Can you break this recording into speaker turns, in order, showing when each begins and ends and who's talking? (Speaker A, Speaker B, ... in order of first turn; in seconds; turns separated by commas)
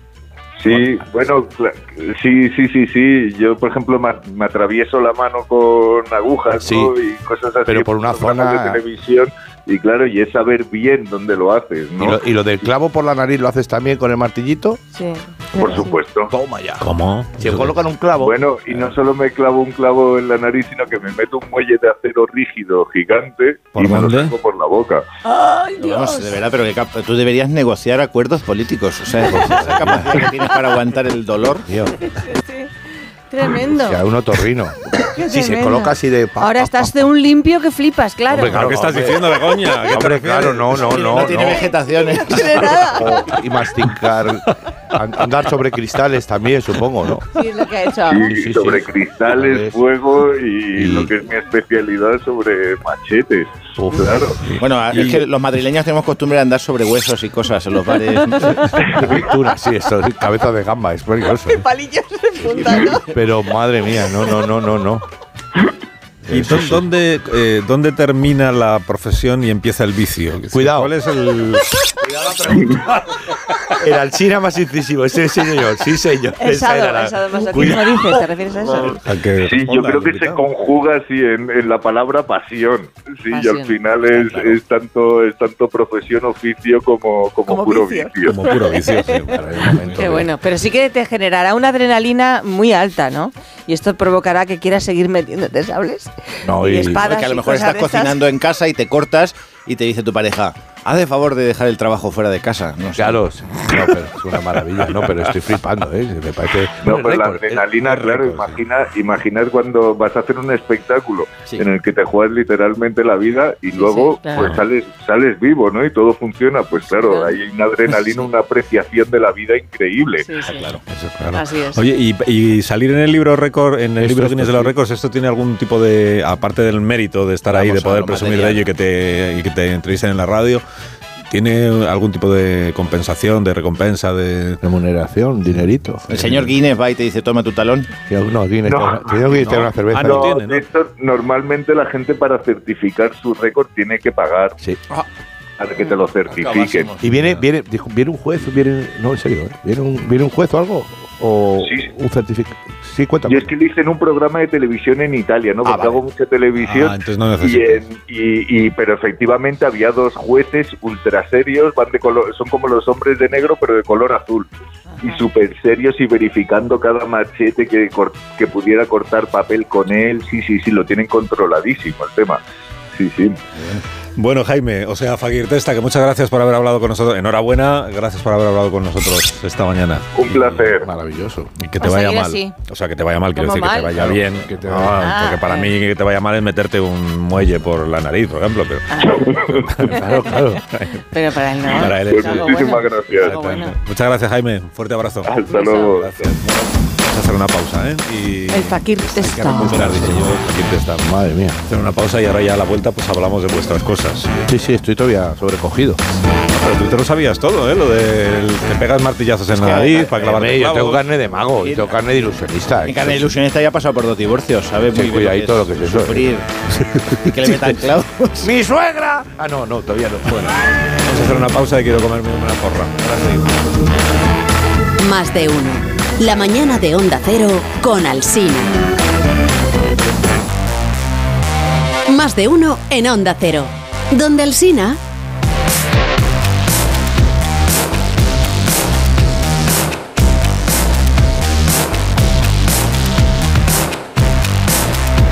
Speaker A: 0.6-12.2, Speaker B: 6.6-6.9, Speaker B: 7.7-8.8, Speaker B: 12.0-14.8, Speaker C: 14.9-16.0, Speaker A: 15.6-16.3, Speaker B: 16.3-16.9, Speaker D: 16.8-17.8, Speaker B: 17.4-18.8, Speaker A: 18.2-25.0, Speaker D: 23.8-24.3, Speaker C: 25.2-26.4, Speaker E: 25.8-31.7, Speaker B: 29.3-30.2, Speaker B: 31.6-32.0, Speaker C: 32.1-32.7, Speaker C: 33.3-34.0, Speaker B: 33.6-36.9, Speaker C: 35.0-38.7, Speaker B: 38.3-41.7, Speaker D: 38.4-41.2, Speaker E: 40.9-43.0, Speaker C: 42.2-43.2, Speaker B: 42.8-47.2, Speaker C: 47.3-48.3, Speaker A: 48.1-54.4, Speaker B: 48.2-49.8, Speaker B: 50.8-51.1, Speaker B: 53.8-54.2, Speaker E: 54.6-58.9, Speaker D: 55.0-55.2, Speaker B: 58.8-61.6, Speaker C: 61.5-63.1, Speaker B: 62.4-65.0, Speaker B: 66.2-66.8, Speaker D: 66.3-71.8, Speaker B: 70.5-70.9, Speaker B: 72.0-78.2, Speaker C: 76.4-79.0, Speaker A: 79.0-88.4, Speaker D: 79.0-80.4, Speaker C: 83.3-84.2, Speaker C: 87.5-89.3, Speaker D: 88.2-90.2, Speaker B: 89.3-90.3, Speaker C: 89.9-98.2, Speaker B: 96.4-97.0, Speaker E: 96.9-103.2, Speaker B: 103.0-107.7, Speaker A: 106.8-120.3, Speaker D: 107.8-108.6, Speaker C: 113.8-114.5, Speaker D: 114.4-114.6, Speaker C: 116.9-117.4, Speaker C: 120.2-120.7, Speaker E: 120.4-120.8, Speaker B: 120.9-121.3, Speaker D: 121.2-130.6, Speaker C: 121.3-121.8, Speaker B: 124.0-124.7, Speaker E: 127.5-128.7, Speaker D: 131.3-134.6, Speaker B: 134.6-136.4, Speaker E: 136.1-137.9, Speaker B: 138.1-140.3, Speaker A: 138.7-139.2, Speaker D: 139.3-140.7, Speaker A: 140.0-144.6, Speaker A: 145.6-146.9, Speaker E: 146.4-146.9, Speaker B: 147.0-153.5, Speaker D: 147.1-147.4, Speaker A: 151.6-151.9, Speaker A: 153.2-164.5, Speaker B: 155.6-156.0, Speaker D: 156.6-157.8, Speaker A: 165.0-172.4, Speaker A: 172.9-173.4, Speaker D: 174.2-180.6, Speaker A: 180.1-180.9, Speaker B: 180.8-181.5, Speaker D: 181.6-190.0, Speaker C: 181.8-182.5, Speaker C: 183.3-183.9, Speaker B: 184.0-185.0, Speaker C: 185.0-185.7, Speaker C: 188.9-190.4, Speaker A: 189.2-189.7, Speaker B: 189.8-190.6, Speaker D: 190.6-191.0, Speaker C: 191.1-193.8, Speaker D: 191.7-201.0, Speaker A: 191.9-193.3, Speaker A: 195.2-196.3, Speaker C: 195.5-195.9, Speaker C: 198.5-199.9, Speaker B: 199.6-201.6, Speaker D: 201.6-204.4, Speaker B: 204.5-206.0, Speaker D: 206.5-211.0, Speaker E: 209.5-210.2, Speaker B: 210.2-213.2, Speaker E: 211.6-212.1, Speaker E: 212.8-216.5, Speaker B: 214.9-216.3, Speaker E: 217.2-218.5, Speaker B: 217.4-217.7, Speaker B: 218.4-220.5, Speaker D: 220.2-223.5, Speaker F: 225.0-228.8, Speaker F: 232.1-235.0